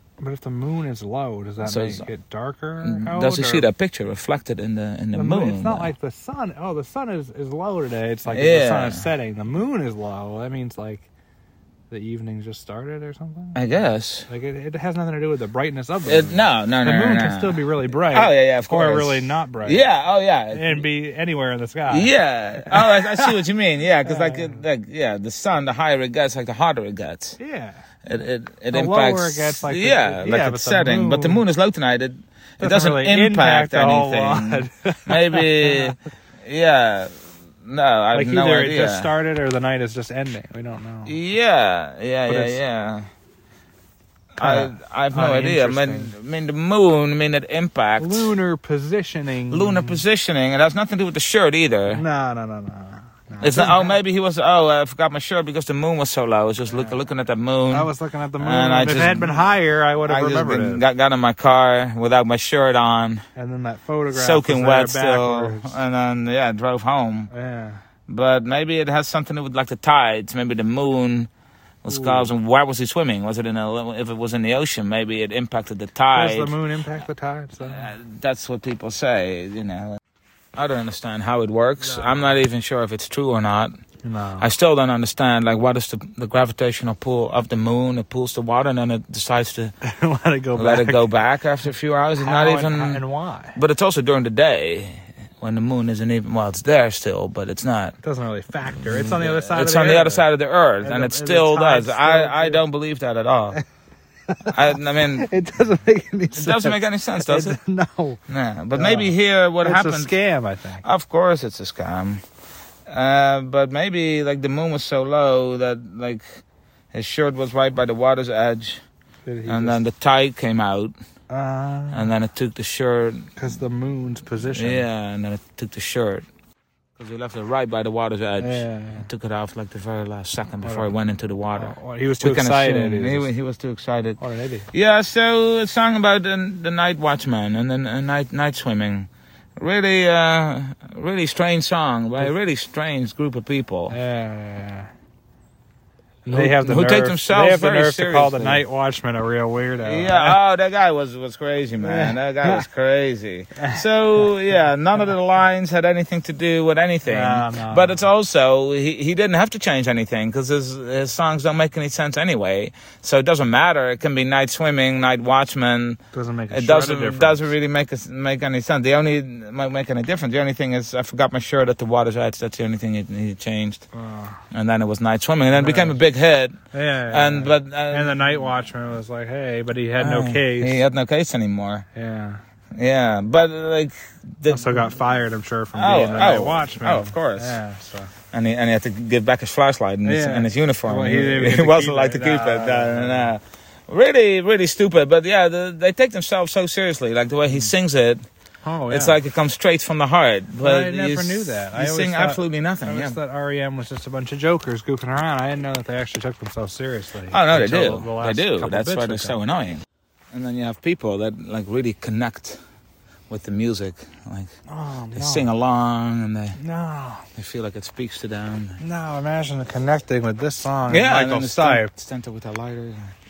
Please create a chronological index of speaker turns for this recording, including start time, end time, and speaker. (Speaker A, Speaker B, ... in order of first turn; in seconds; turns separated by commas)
Speaker A: 0.2-3.7, Speaker B: 1.6-2.0, Speaker B: 2.8-5.9, Speaker A: 5.1-11.1, Speaker B: 8.3-9.0, Speaker A: 11.9-13.6, Speaker B: 13.5-14.3, Speaker A: 14.3-19.9, Speaker B: 16.0-20.9, Speaker A: 20.5-23.4, Speaker B: 21.9-27.4, Speaker A: 24.0-24.6, Speaker A: 27.4-27.8, Speaker B: 28.0-37.1, Speaker A: 28.7-31.4, Speaker A: 32.6-36.0, Speaker B: 37.6-39.1, Speaker A: 38.1-41.1, Speaker B: 41.0-43.1, Speaker A: 42.3-42.6, Speaker A: 44.4-46.1, Speaker B: 44.4-48.3, Speaker A: 48.0-50.0, Speaker B: 49.5-52.0, Speaker A: 51.9-54.0, Speaker B: 53.4-59.4, Speaker A: 56.7-57.0, Speaker A: 57.7-60.8, Speaker B: 60.0-63.2, Speaker A: 63.4-65.8, Speaker B: 64.1-67.3, Speaker A: 67.3-67.8, Speaker B: 68.1-71.3, Speaker B: 71.8-76.5, Speaker A: 71.9-72.3, Speaker A: 76.1-77.9, Speaker B: 77.7-80.0, Speaker B: 80.5-83.8, Speaker A: 81.8-82.3, Speaker A: 84.0-84.5, Speaker B: 84.4-89.7, Speaker A: 89.8-91.0, Speaker B: 90.5-93.0, Speaker A: 92.2-93.6, Speaker B: 93.5-98.0, Speaker A: 98.0-100.2, Speaker B: 98.9-103.6, Speaker A: 100.8-102.6, Speaker A: 104.3-108.2, Speaker B: 104.5-105.3, Speaker B: 106.3-107.6, Speaker B: 108.3-110.1, Speaker A: 108.7-110.8, Speaker B: 110.8-112.2, Speaker B: 112.9-116.4, Speaker B: 116.9-118.8, Speaker A: 119.2-119.8, Speaker B: 119.5-120.9, Speaker A: 121.3-122.1, Speaker B: 121.9-123.4, Speaker A: 123.4-124.8, Speaker B: 124.5-126.3, Speaker B: 127.0-134.2, Speaker A: 128.4-129.1, Speaker A: 130.6-130.9, Speaker A: 131.5-133.3, Speaker A: 134.2-134.7, Speaker B: 134.7-144.0, Speaker A: 143.9-144.9, Speaker A: 146.2-150.4, Speaker B: 146.3-148.6, Speaker B: 149.8-166.0, Speaker A: 151.8-152.7, Speaker A: 157.0-157.9, Speaker A: 166.1-167.5, Speaker B: 166.5-173.8, Speaker A: 173.9-174.4, Speaker B: 174.5-176.6, Speaker A: 175.5-176.0, Speaker A: 176.7-180.8, Speaker B: 177.1-178.3, Speaker B: 180.0-181.8, Speaker A: 181.9-182.4, Speaker B: 182.8-184.9, Speaker A: 184.5-188.1, Speaker B: 185.7-187.6, Speaker B: 188.3-198.2, Speaker A: 190.0-193.3, Speaker A: 198.6-199.2, Speaker B: 198.9-203.2, Speaker A: 200.6-209.4, Speaker B: 207.3-212.6, Speaker B: 213.3-214.5, Speaker A: 214.7-215.5, Speaker B: 215.1-216.6, Speaker A: 216.6-217.2, Speaker B: 217.3-218.8, Speaker A: 218.8-221.9, Speaker B: 220.9-223.1